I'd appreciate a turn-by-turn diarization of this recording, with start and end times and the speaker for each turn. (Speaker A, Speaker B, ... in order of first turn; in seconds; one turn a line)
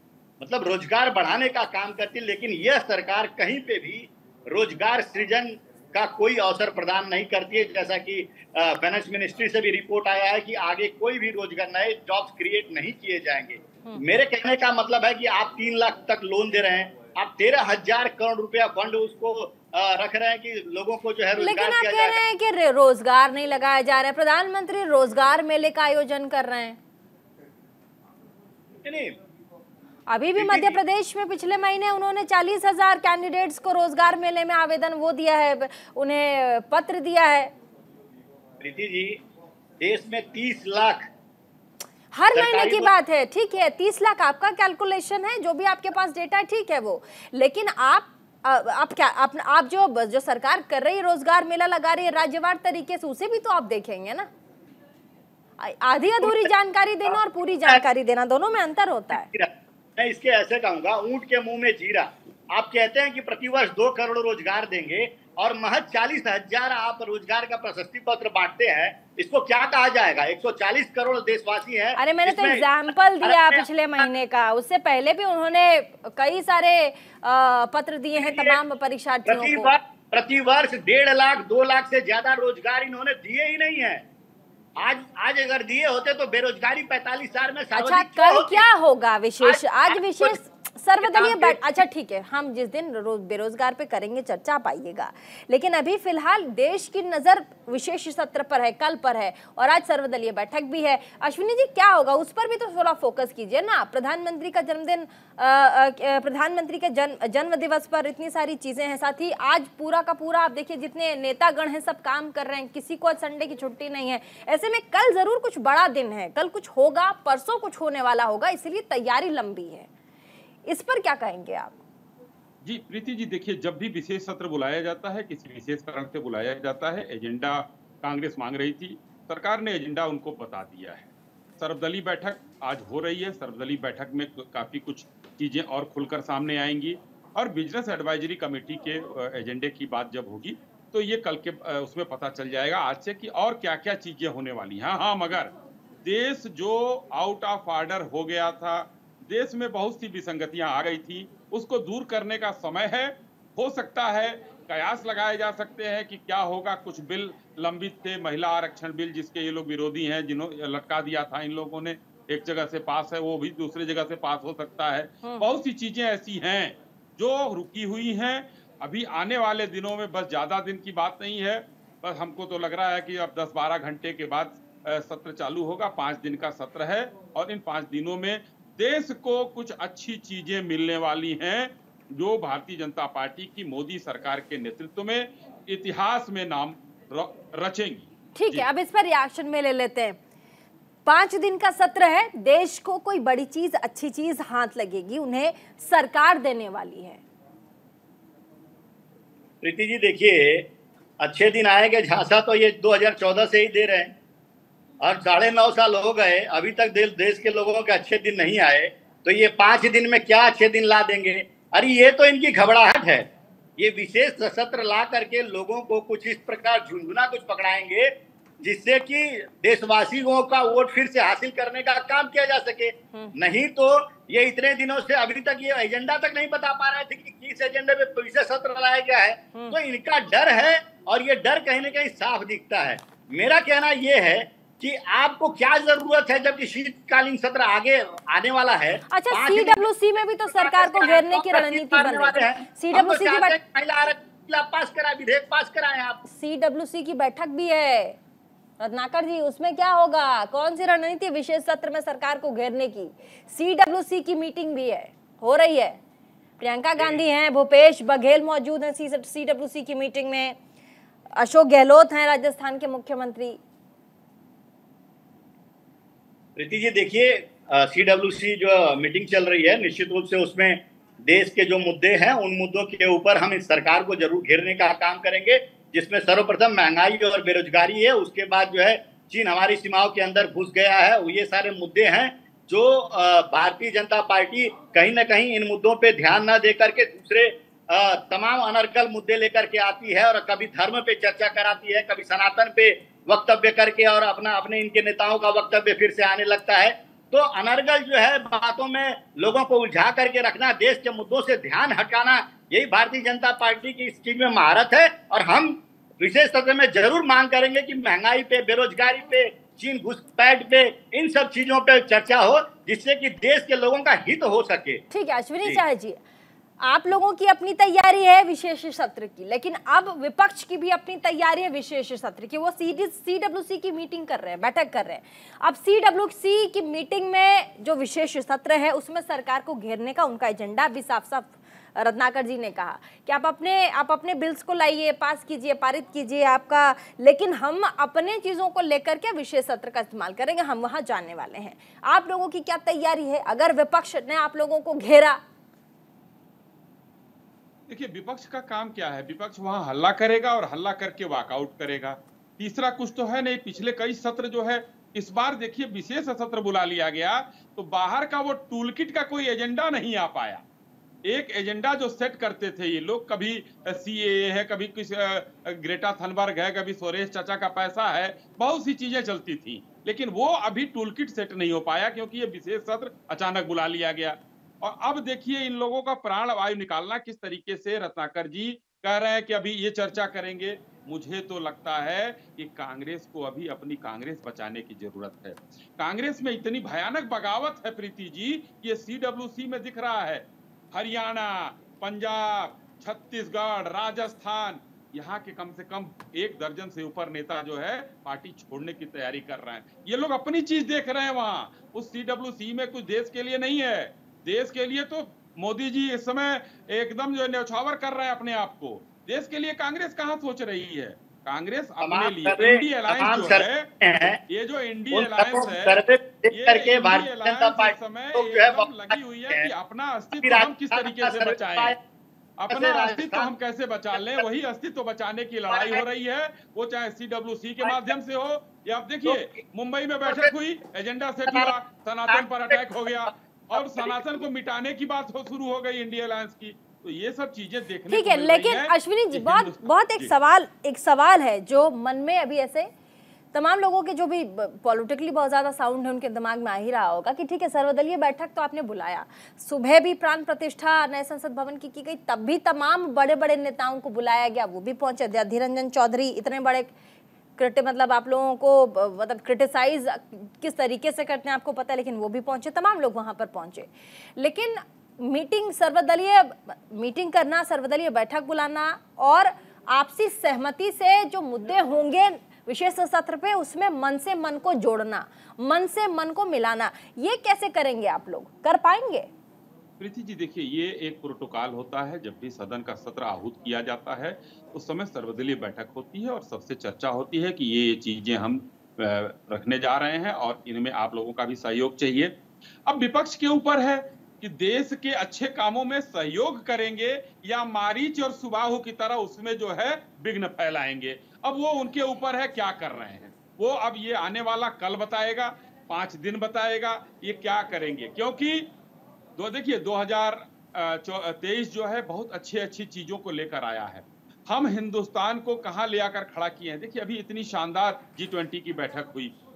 Speaker A: 0.4-22.2
Speaker B: 21.4-26.8
Speaker A: 28.8-29.2
Speaker B: 30.1-37.5
Speaker A: 30.4-30.8
Speaker A: 38.6-39.2
Speaker A: 39.8-41.1
Speaker B: 42.1-54.3
Speaker A: 42.3-42.9
Speaker B: 55.6-59.3
Speaker A: 56.2-56.5
Speaker A: 57.1-57.8
Speaker A: 59.1-72.7
Speaker B: 72.0-79.7
Speaker A: 73.2-74.0
Speaker A: 78.2-78.6
Speaker A: 79.2-84.0
Speaker A: 84.8-88.7
Speaker B: 87.8-119.9
Speaker A: 89.4-90.4
Speaker A: 91.0-91.8
Speaker B: 120.7-121.7
Speaker C: 122.6-145.5
Speaker C: 146.0-188.7
Speaker B: 188.3-190.2
Speaker B: 191.0-197.2
Speaker A: 199.6-200.7
Speaker A: 201.2-204.1
Speaker A: 205.0-213.2
Speaker A: 213.8-239.9
Speaker B: 239.1-243.6
Speaker A: 240.5-246.2
Speaker B: 246.3-248.2
Speaker B: 248.8-256.0
Speaker B: 256.6-260.6
Speaker B: 261.4-263.6
Speaker A: 266.6-315.0
Speaker B: 315.1-316.2
Speaker B: 316.8-345.4
Speaker C: 347.9-360.6
Speaker C: 361.2-413.9
Speaker A: 412.0-414.4
Speaker C: 414.5-421.9
Speaker A: 415.1-419.7
Speaker A: 420.3-422.0
Speaker C: 422.6-440.3
Speaker A: 422.7-423.5
Speaker A: 424.1-424.4
Speaker A: 425.7-426.0
Speaker A: 427.8-428.1
Speaker A: 430.2-430.5
Speaker A: 431.5-431.7
Speaker A: 432.3-434.2
Speaker B: 438.1-442.9
Speaker B: 443.5-456.9
Speaker B: 457.6-479.3
Speaker C: 480.0-492.3
Speaker C: 492.9-508.7
Speaker C: 509.4-519.3